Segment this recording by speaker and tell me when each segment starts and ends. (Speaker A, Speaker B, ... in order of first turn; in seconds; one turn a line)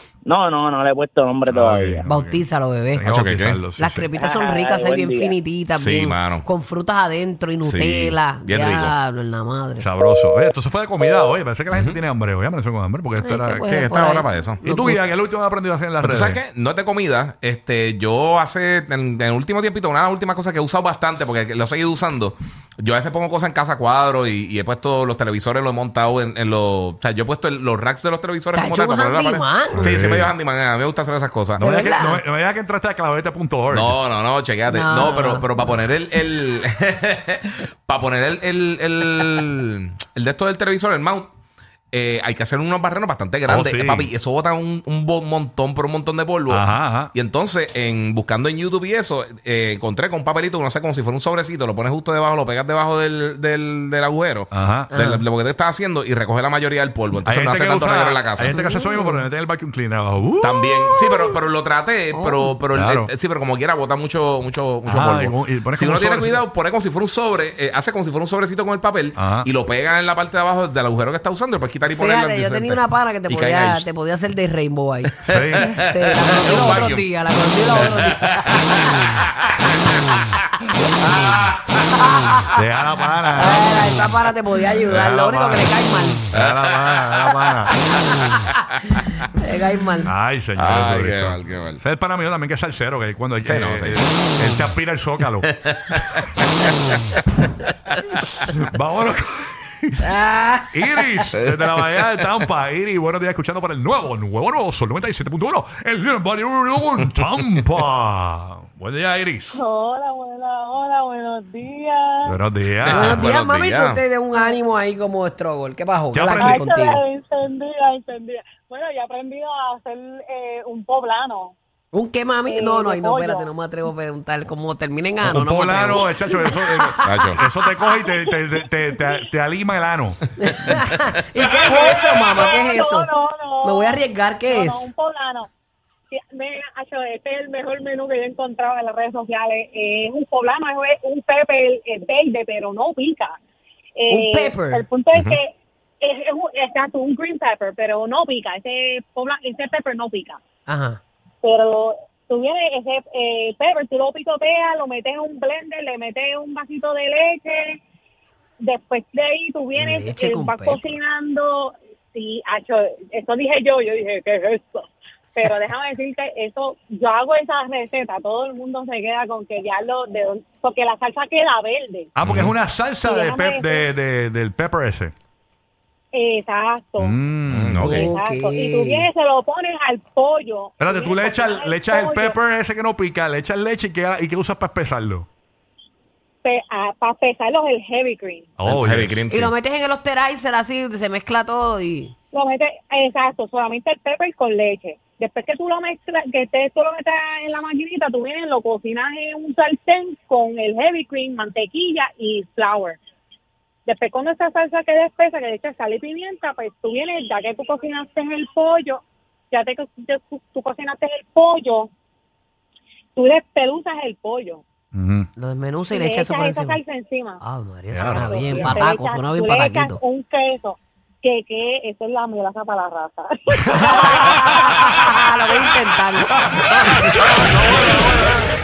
Speaker A: 0.2-2.0
Speaker B: 1.5-4.1
Speaker C: 2.0-3.0
Speaker D: 3.0-3.6
Speaker C: 3.8-9.9
Speaker A: 4.1-5.4
Speaker D: 5.8-6.5
Speaker D: 7.6-8.9
Speaker B: 9.8-13.7
Speaker D: 11.7-12.0
Speaker C: 13.2-15.0
Speaker D: 13.7-14.6
Speaker B: 14.6-16.4
Speaker D: 16.0-31.6
Speaker C: 28.5-29.9
Speaker B: 29.7-30.3
Speaker B: 31.6-34.0
Speaker C: 31.6-32.2
Speaker D: 33.7-41.3
Speaker C: 34.7-35.6
Speaker D: 41.9-58.6
Speaker B: 43.5-44.1
Speaker B: 46.5-47.1
Speaker B: 54.5-54.9
Speaker C: 54.9-55.2
Speaker B: 57.2-61.4
Speaker C: 58.5-59.2
Speaker D: 60.4-73.9
Speaker C: 62.1-62.5
Speaker B: 62.7-63.1
Speaker B: 64.8-66.5
Speaker B: 69.2-69.5
Speaker C: 71.9-78.9
Speaker D: 75.2-77.1
Speaker B: 75.3-75.8
Speaker D: 77.8-79.6
Speaker D: 81.0-81.8
Speaker C: 82.0-82.6
Speaker B: 82.5-84.1
Speaker C: 83.3-86.3
Speaker B: 84.9-85.8
Speaker B: 86.3-87.7
Speaker D: 86.3-87.0
Speaker D: 88.0-89.2
Speaker C: 89.3-90.1
Speaker B: 90.0-95.5
Speaker D: 90.6-91.8
Speaker D: 93.4-94.3
Speaker D: 95.6-96.3
Speaker B: 98.5-100.0
Speaker C: 100.0-101.1
Speaker B: 100.7-109.5
Speaker E: 109.5-112.4
Speaker B: 112.2-113.3
Speaker D: 112.8-114.0
Speaker C: 112.9-117.0
Speaker E: 114.3-114.6
Speaker B: 116.1-116.7
Speaker E: 116.4-121.5
Speaker C: 121.9-127.4
Speaker E: 122.5-123.5
Speaker B: 125.2-130.8
Speaker D: 127.0-127.4
Speaker E: 127.9-128.3
Speaker C: 130.4-133.1
Speaker E: 131.6-135.5
Speaker C: 133.6-134.9
Speaker E: 136.1-143.3
Speaker E: 144.0-150.4
Speaker C: 144.1-144.8
Speaker C: 150.7-151.0
Speaker E: 151.4-157.8
Speaker E: 158.6-172.1
Speaker C: 159.8-160.9
Speaker B: 172.2-175.1
Speaker D: 172.2-172.5
Speaker E: 173.0-173.9
Speaker E: 176.1-177.2
Speaker B: 177.0-178.1
Speaker D: 177.5-178.1
Speaker C: 177.8-179.1
Speaker E: 178.0-182.4
Speaker B: 180.8-185.3
Speaker E: 186.4-188.5
Speaker B: 188.6-189.2
Speaker D: 188.7-189.5
Speaker C: 189.3-192.1
Speaker E: 192.3-203.0
Speaker E: 203.8-211.9
Speaker E: 213.1-214.6
Speaker B: 214.9-215.3
Speaker C: 215.4-216.8
Speaker E: 215.9-217.4
Speaker C: 217.4-220.0
Speaker B: 217.9-218.8
Speaker E: 218.0-224.4
Speaker B: 223.7-224.6
Speaker C: 223.8-227.4
Speaker B: 226.5-228.4